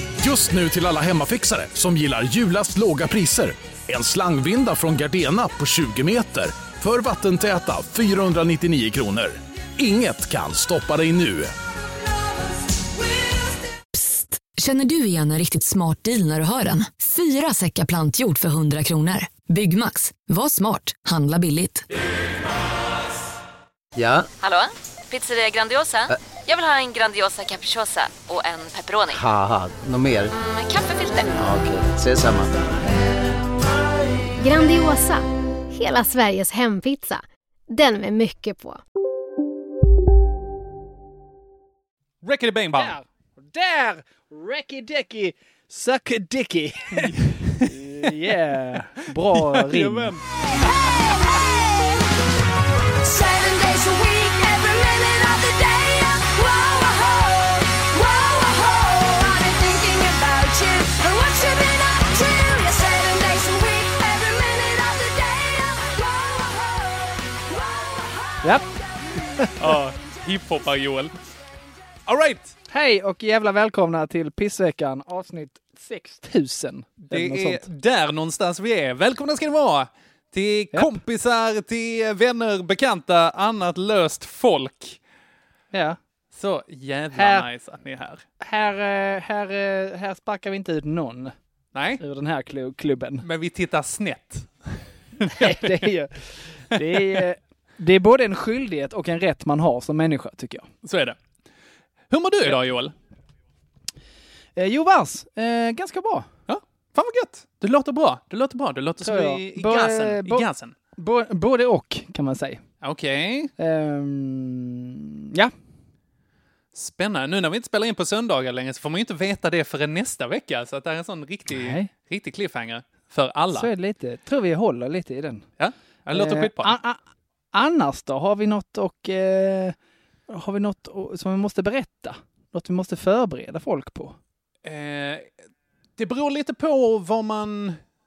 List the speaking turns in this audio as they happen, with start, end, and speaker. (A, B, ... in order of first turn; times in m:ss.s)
0:00.2-0:11.5 A
0:13.9-0:21.9 B
0:23.9-0:24.3 C
0:24.4-0:29.2 D
0:29.1-0:30.3 C
0:30.3-0:31.4 D
0:31.4-0:32.7 C
0:34.4-0:38.8 E
0:42.2-0:42.9 F
0:42.7-0:50.2 G
0:47.0-0:48.1 F
0:49.0-0:50.2 F
0:50.6-0:51.9 H
0:53.0-1:08.4 H
1:08.4-1:08.7 G
1:09.6-1:11.1 F
1:12.1-1:12.5 F
1:12.7-1:17.6 G
1:17.0-1:25.0 F
1:25.7-1:26.0 G
1:26.3-1:28.2 F
1:27.1-1:27.4 G
1:28.4-1:31.3 G
1:31.7-1:32.0 F
1:32.0-1:33.2 G
1:33.2-1:35.9 F
1:35.2-1:40.7 G
1:36.7-1:37.2 F
1:40.8-1:41.2 F
1:42.1-1:42.9 F
1:44.6-1:46.3 G
1:46.5-1:50.7 F
1:49.0-1:52.6 G
1:52.8-1:53.5 F
1:53.6-1:55.5 G
1:56.7-2:03.7 F
2:01.5-2:01.9 G
2:03.5-2:05.4 G
2:05.6-2:06.7 F
2:06.1-2:07.0 G
2:07.5-2:09.8 G
2:10.3-2:14.2 G
2:14.6-2:15.3 F
2:16.0-2:17.8 F